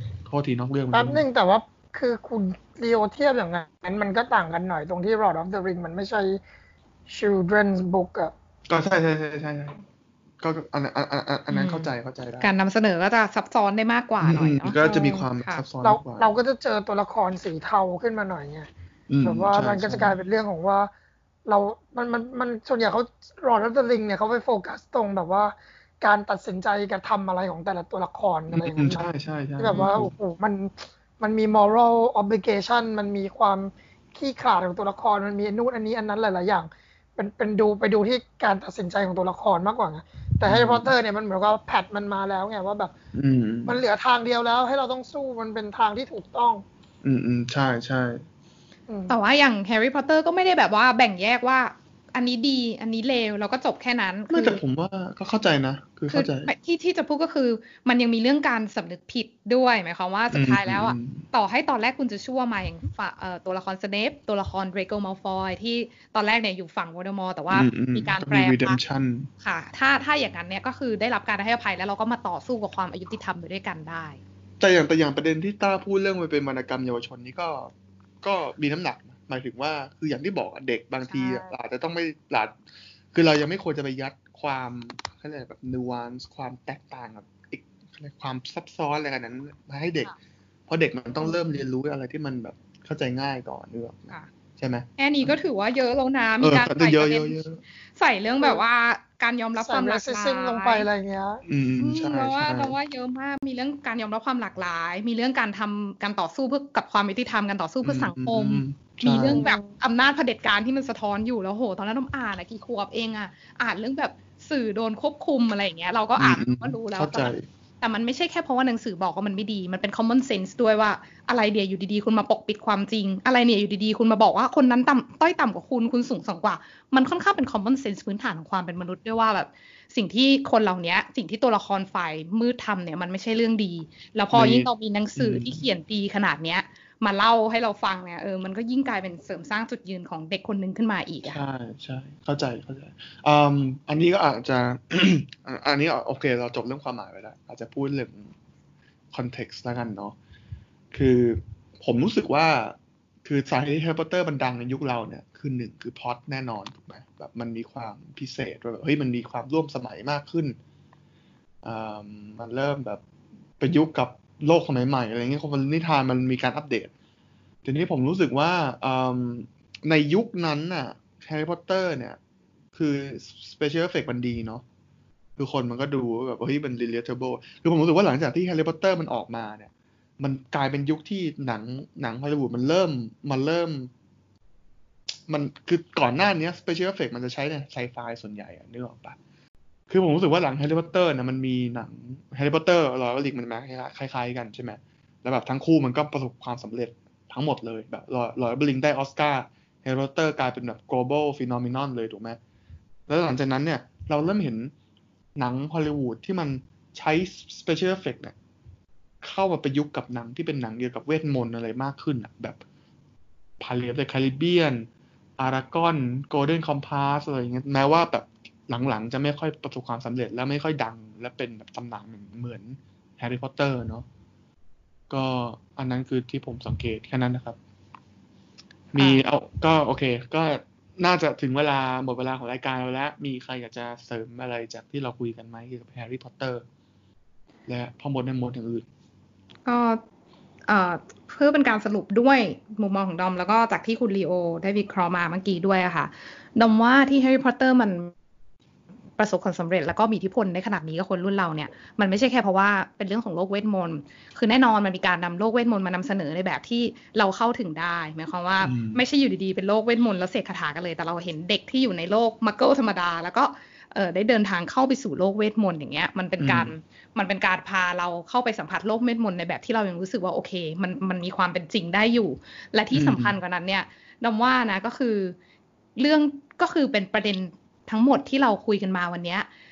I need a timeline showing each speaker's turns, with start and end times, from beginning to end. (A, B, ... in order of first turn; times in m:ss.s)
0:00.2-0:01.2 A
0:00.9-0:06.4 B
0:07.1-0:08.3 B
0:08.7-0:09.8 A
0:10.4-0:12.5 A
0:11.5-0:15.6 C
0:14.2-0:16.3 A
0:15.8-0:18.7 B
0:19.1-0:20.1 A
0:19.2-0:20.9 B
0:21.4-0:29.1 B
0:28.5-0:30.1 A
0:29.6-0:42.9 B
0:29.7-0:30.0 C
0:40.4-0:40.9 A
0:43.1-0:43.8 A
0:43.7-0:46.6 B
0:47.0-0:48.2 A
0:48.9-0:49.1 B
0:49.1-0:54.6 C
0:54.3-0:56.5 A
0:56.1-1:08.8 C
1:00.3-1:01.2 A
1:07.5-1:09.3 A
1:09.4-1:14.2 C
1:14.6-1:22.6 A
1:21.0-1:21.5 C
1:23.1-1:30.1 A
1:30.7-1:35.3 A
1:35.0-1:37.4 C
1:36.4-1:37.6 A
1:37.9-1:40.9 C
1:39.6-1:41.4 B
1:41.4-1:42.7 A
1:41.8-2:21.4 C
1:47.8-1:49.4 A
1:49.3-1:49.7 B
1:56.2-1:57.4 A
2:14.3-2:15.6 A
2:21.2-2:28.3 A
2:29.1-2:30.2 A
2:30.9-2:40.6 A
2:41.6-2:43.0 A
2:43.6-2:46.9 A
2:47.6-2:52.2 A
2:52.7-2:54.6 A
2:55.4-3:03.9 A
3:05.3-3:09.2 A
3:09.9-3:22.4 A
3:23.1-3:24.7 A
3:25.4-3:28.3 A
3:29.2-3:32.6 A
3:33.6-3:44.0 A
3:45.1-3:47.6 A
3:48.9-3:56.6 A
3:49.0-3:49.2 C
3:57.7-3:58.8 A
3:59.6-4:00.0 C
4:00.7-4:08.1 C
4:09.2-4:35.4 C
4:18.6-4:19.0 A
4:26.4-4:26.7 A
4:32.9-4:33.4 A
4:36.0-4:39.5 C